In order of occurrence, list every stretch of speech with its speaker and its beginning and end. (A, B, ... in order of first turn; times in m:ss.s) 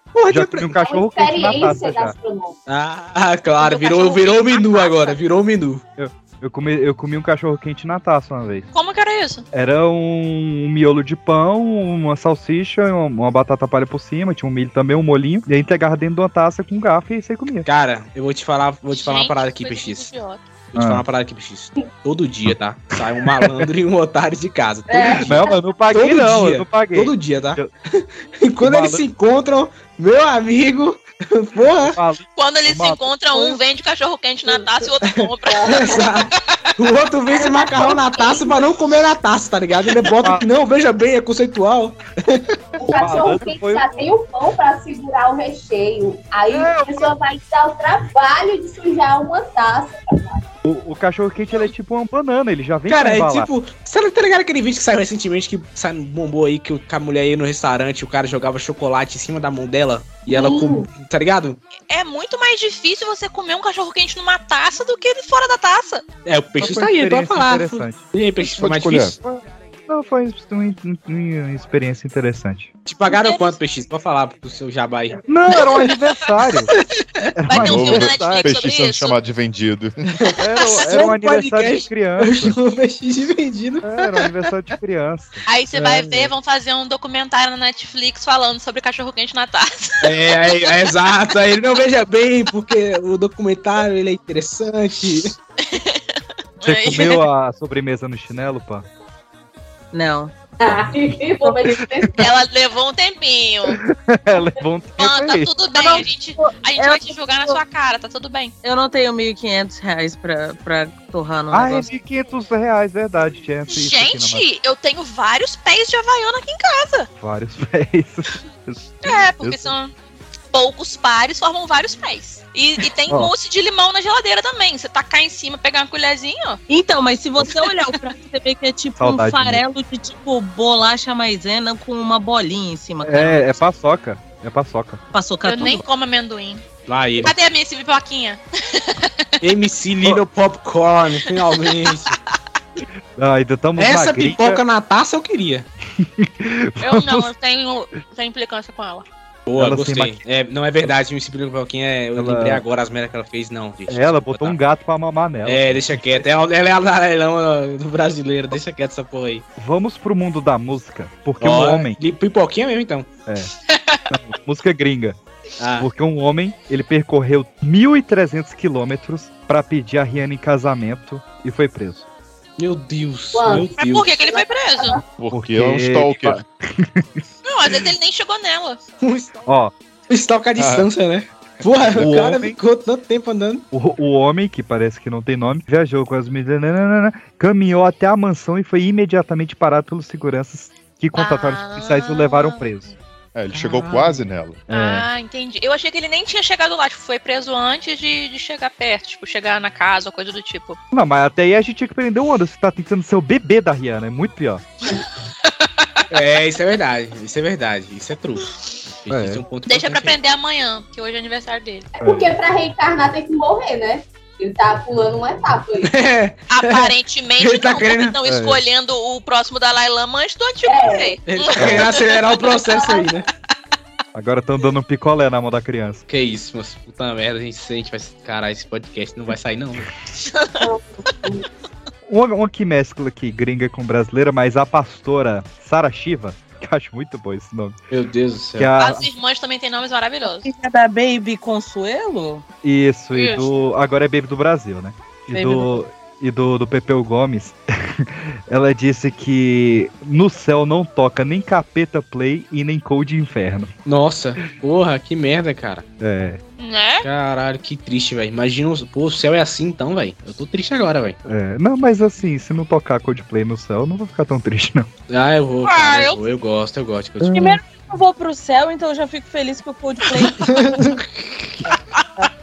0:00.1-0:00.8 A
0:00.3-0:02.1 B
0:00.8-0:02.6 C
0:02.7-0:05.8 A
0:03.6-0:05.2 D
0:06.0-0:08.7 B
0:08.7-0:09.4 D
0:09.5-0:17.7 B
0:17.6-0:20.1 A
0:18.9-0:20.4 D
0:20.7-0:32.0 A
0:20.8-0:21.0 B
0:23.3-0:23.7 B
0:24.9-0:25.5 C
0:25.2-0:27.7 B
0:28.6-0:29.0 B
0:31.8-0:33.6 B
0:32.4-0:36.0 D
0:35.0-0:42.6 A
0:35.4-0:36.2 C
0:37.3-0:38.6 C
0:42.8-0:50.4 C
0:42.9-0:44.0 B
0:46.5-0:47.1 B
0:50.6-0:53.5 B
0:52.9-1:01.6 A
1:00.3-1:00.9 C
1:01.9-1:06.0 D
1:06.2-1:09.1 A
1:06.6-1:12.7 B
1:08.6-1:09.1 E
1:12.8-1:15.9 A
1:13.1-1:13.6 D
1:15.3-1:16.7 B
1:16.7-1:17.3 A
1:17.4-1:18.5 B
1:17.5-1:19.2 D
1:17.6-1:20.0 E
1:20.2-1:24.3 A
1:20.4-1:22.6 B
1:23.8-1:25.4 B
1:25.5-1:30.8 D
1:25.8-1:26.3 A
1:30.0-1:35.3 A
1:35.6-1:36.0 D
1:36.6-1:37.2 D
1:36.6-1:38.9 B
1:39.9-1:40.3 F
1:40.6-1:42.3 C
1:42.2-1:43.8 D
1:43.7-1:45.5 B
1:45.0-1:48.5 D
1:45.7-1:47.6 F
1:48.6-1:51.9 F
1:51.5-1:54.4 B
1:53.7-1:57.1 D
1:57.2-1:59.6 B
1:59.0-1:59.9 D
2:00.5-2:06.6 D
2:06.7-2:13.5 F
2:07.6-2:07.9 D
2:09.0-2:09.6 B
2:13.0-2:15.0 B
2:15.1-2:15.8 F
2:15.4-2:16.6 D
2:16.9-2:17.3 A
2:17.2-2:19.2 D
2:19.4-2:22.1 A
2:21.3-2:22.2 D
2:23.2-2:24.6 B
2:23.8-2:25.7 A
2:26.0-2:27.3 B
2:26.8-2:29.0 D
2:29.5-2:34.6 A
2:29.6-2:30.2 B
2:32.2-2:32.6 B
2:33.9-2:36.2 B
2:35.4-2:39.4 A
2:39.6-2:42.0 B
2:41.4-2:43.1 A
2:43.3-2:43.5 B
2:43.7-2:44.0 D
2:44.1-2:45.2 B
2:45.6-2:45.9 A
2:45.8-2:52.0 B
2:52.6-2:54.1 A
2:53.3-2:55.0 C
2:53.8-2:55.0 D
2:55.2-2:56.4 E
2:55.3-2:57.2 B
2:57.4-2:58.8 D
2:59.0-2:59.3 A
2:59.4-2:59.7 B
3:00.1-3:03.6 A
3:00.6-3:00.9 E
3:02.0-3:02.6 B
3:03.7-3:12.9 B
3:11.1-3:12.6 D
3:13.3-3:14.6 E
3:13.5-3:14.2 A
3:14.7-3:15.0 B
3:14.7-3:20.8 D
3:20.9-3:24.6 B
3:24.9-3:25.8 D
3:26.1-3:28.4 A
3:29.0-3:30.2 A
3:29.1-3:29.4 B
3:29.6-3:31.9 D
3:32.0-3:35.9 C
3:32.0-3:32.3 B
3:35.8-3:38.2 A
3:36.5-3:42.2 D
3:38.2-3:38.6 B
3:40.6-3:41.2 C
3:41.2-3:43.3 A
3:41.6-3:41.9 B
3:42.7-3:43.1 C
3:44.1-3:46.0 B
3:46.1-3:49.9 A
3:50.2-3:50.6 D
3:50.6-3:51.4 C
3:52.1-3:57.8 B
3:57.9-3:58.7 A
3:58.6-3:59.1 B
3:58.8-4:00.4 D
4:00.4-4:02.4 F
4:02.6-4:13.7 B
4:05.3-4:05.8 F
4:13.8-4:15.8 A
4:16.0-4:16.4 B
4:16.6-4:17.0 D
4:17.0-4:21.2 A
4:21.2-4:24.9 B
4:25.1-4:27.5 A
4:25.6-4:26.2 D
4:27.2-4:27.6 B
4:27.3-4:30.8 F
4:30.4-4:31.4 A